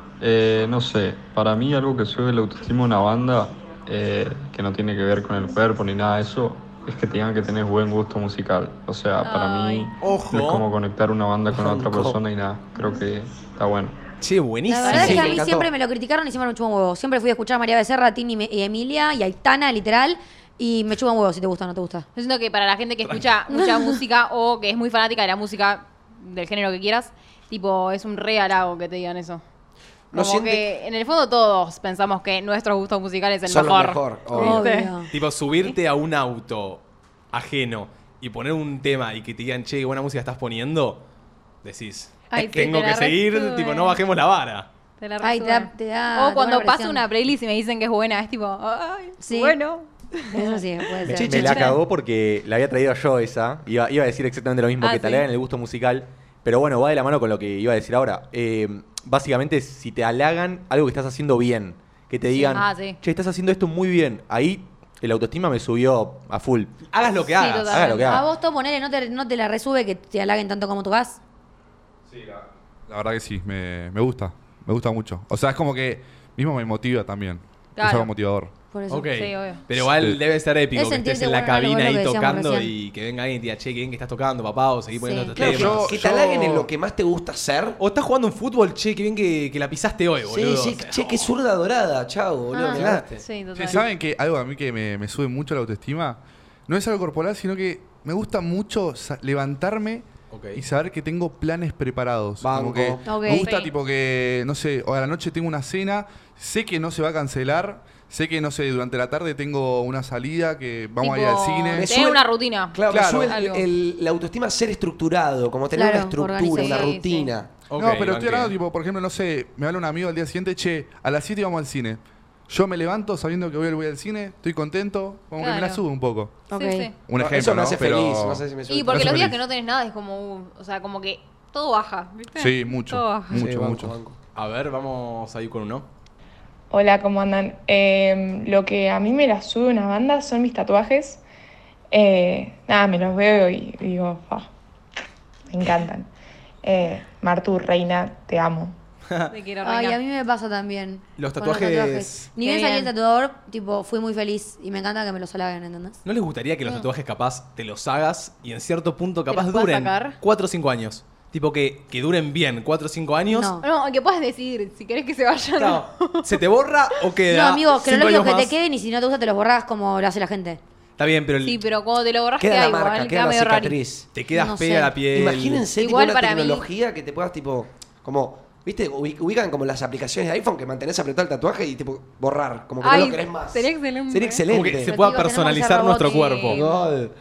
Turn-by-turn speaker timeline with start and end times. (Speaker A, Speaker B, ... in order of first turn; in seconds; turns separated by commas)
Speaker A: 0.2-14.0, Speaker B: 9.2-9.9, Speaker C: 10.0-10.7, Speaker D: 11.5-12.2, Speaker C: 14.2-15.4, Speaker E: 14.7-22.1, Speaker B: 14.8-15.4, Speaker D: 14.9-15.7, Speaker B: 22.1-29.4, Speaker E: 23.5-24.0, Speaker D: 30.1-30.6, Speaker B: 30.1-35.0, Speaker D: 33.5-34.6, Speaker E: 34.3-35.1, Speaker C: 35.1-41.0, Speaker C: 41.6-44.7, Speaker B: 42.3-44.0, Speaker B: 45.0-51.8, Speaker E: 45.2-47.0, Speaker E: 49.2-49.6, Speaker E: 50.3-51.7, Speaker F: 51.1-67.1, Speaker D: 51.1-51.5, Speaker B: 54.8-55.2, Speaker B: 62.5-63.0, Speaker C: 66.9-68.1, Speaker B: 67.4-68.2, Speaker F: 67.7-68.2, Speaker E: 68.1-71.2, Speaker G: 72.9-78.5, Speaker B: 77.8-78.1, Speaker E: 78.7-79.2, Speaker C: 78.9-86.0, Speaker B: 79.1-79.6, Speaker G: 79.7-80.2, Speaker E: 80.8-82.7, Speaker E: 85.0-85.5, Speaker D: 85.4-87.8, Speaker G: 85.4-86.7, Speaker C: 87.8-91.3, Speaker D: 90.3-93.2, Speaker B: 92.5-93.9, Speaker C: 92.7-93.1, Speaker G: 93.5-111.9, Speaker C: 100.3-100.6, Speaker D: 102.4-103.3, Speaker E: 103.1-103.5, Speaker B: 103.3-103.7, Speaker B: 111.0-113.7, Speaker D: 111.7-117.5, Speaker G: 112.9-113.3, Speaker E: 115.7-116.9, Speaker B: 116.5-117.3, Speaker C: 117.7-118.5, Speaker G: 117.8-126.4, Speaker B: 125.4-125.8, Speaker E: 126.5-126.9, Speaker B: 126.5-126.9, Speaker G: 127.0-129.4, Speaker D: 127.2-129.3, Speaker B: 128.7-133.5, Speaker G: 132.4-134.0, Speaker D: 133.3-134.2, Speaker C: 134.3-135.9, Speaker H: 136.7-141.2, Speaker H: 141.9-144.5, Speaker H: 145.5-146.1, Speaker H: 146.6-148.8, Speaker C: 149.1-149.3, Speaker B: 149.3-150.0, Speaker E: 149.6-156.0, Speaker C: 151.2-152.3, Speaker B: 152.4-152.9, Speaker C: 156.1-163.5, Speaker B: 159.3-160.2, Speaker E: 163.3-163.7, Speaker B: 163.6-166.3, Speaker C: 165.6-168.5, Speaker E: 167.3-170.6, Speaker C: 171.0-171.6, Speaker B: 171.4-173.8, Speaker D: 172.4-174.1, Speaker C: 174.1-175.7, Speaker E: 174.3-174.9, Speaker D: 175.1-184.9, Speaker B: 175.8-176.7, Speaker B: 182.8-184.5, Speaker C: 184.5-186.6, Speaker E: 184.9-186.5, Speaker B: 185.0-185.3, Speaker B: 186.0-186.9, Speaker D: 186.5-187.1